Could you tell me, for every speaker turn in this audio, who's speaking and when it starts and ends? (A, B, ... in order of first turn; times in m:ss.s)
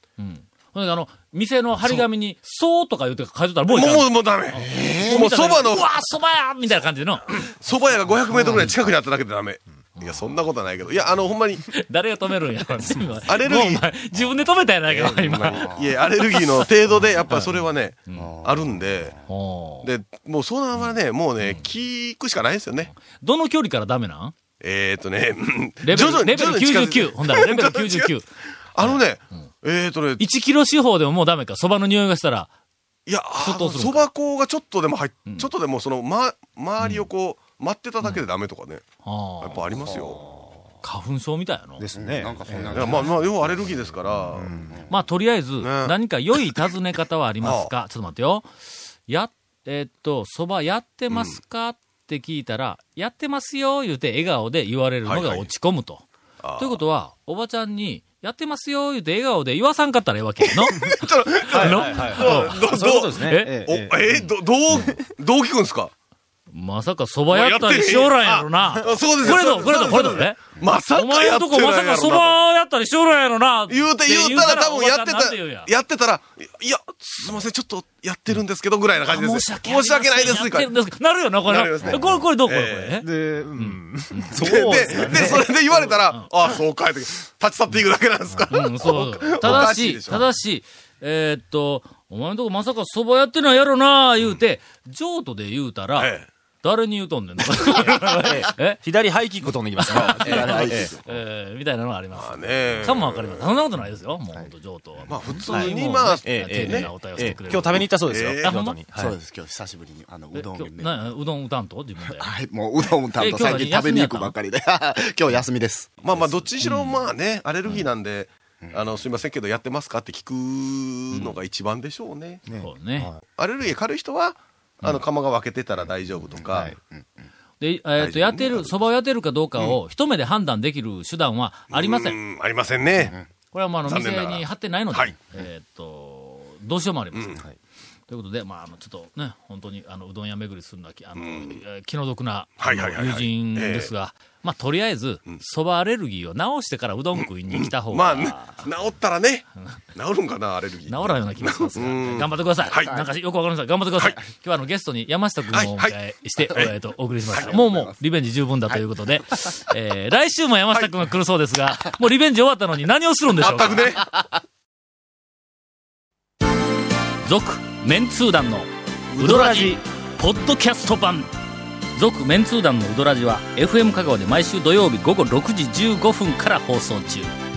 0:00.2-0:07.4 A
0:03.7-0:05.9 B
0:04.5-0:05.2 C
0:07.4-0:11.6 B
0:08.3-0:08.7 A
0:11.7-0:16.7 A
0:13.3-0:13.9 B
0:14.9-0:19.2 B
0:15.5-0:15.9 C
0:17.3-0:17.6 A
0:18.1-0:18.3 A
0:18.2-0:19.2 C
0:19.3-0:19.9 A
0:19.8-0:22.9 B
0:22.9-0:24.3 A
0:24.6-0:28.1 B
0:25.8-0:28.2 A
0:28.7-0:30.2 B
0:28.8-0:29.4 A
0:30.2-0:32.5 A
0:33.1-0:38.8 B
0:33.4-0:34.1 A
0:39.0-0:39.7 A
0:39.4-0:40.2 B
0:40.8-0:41.9 A
0:41.8-0:43.1 D
0:41.9-0:43.3 C
0:42.7-0:44.6 B
0:44.3-0:44.8 D
0:44.9-0:48.5 A
0:45.6-0:46.0 B
0:47.4-0:47.7 B
0:49.1-0:56.0 A
0:51.1-0:51.4 B
0:55.0-0:55.5 B
0:56.4-0:56.8 B
0:56.6-1:03.5 A
1:00.4-1:05.9 B
1:01.5-1:04.3 D
1:06.5-1:15.7 A
1:07.3-1:12.4 B
1:13.7-1:20.7 B
1:19.0-1:23.1 A
1:21.4-1:23.0 B
1:23.0-1:25.4 D
1:23.6-1:25.3 A
1:24.4-1:30.3 B
1:25.8-1:26.3 A
1:28.5-1:38.8 A
1:36.0-1:36.3 B
1:37.7-1:41.0 D
1:39.8-1:41.0 C
1:40.0-1:48.8 A
1:42.2-1:43.6 B
1:45.1-1:46.9 B
1:45.5-1:49.1 D
1:47.7-1:48.6 B
1:49.0-1:51.1 C
1:50.3-1:52.3 A
1:52.1-1:56.2 C
1:53.2-1:54.4 A
1:56.0-2:02.4 B
1:56.6-1:57.0 A
1:58.6-1:58.9 C
2:01.1-2:01.4 A
2:02.5-2:03.2 D
2:02.6-2:03.1 A
2:03.4-2:06.7 B
2:06.5-2:06.8 D
2:07.6-2:12.2 A
2:08.0-2:08.8 B
2:11.7-2:13.2 B
2:13.5-2:17.4 A
2:13.8-2:15.2 B
2:17.1-2:17.4 B
2:18.1-2:28.7 A
2:21.2-2:21.6 B
2:22.6-2:23.9 B
2:27.5-2:33.0 B
2:30.9-2:44.0 A
2:35.5-2:36.0 B
2:37.3-2:37.6 B
2:37.4-2:38.0 C
2:43.4-2:44.1 B
2:47.2-2:51.3 A
2:49.2-2:49.8 D
2:52.0-2:57.3 A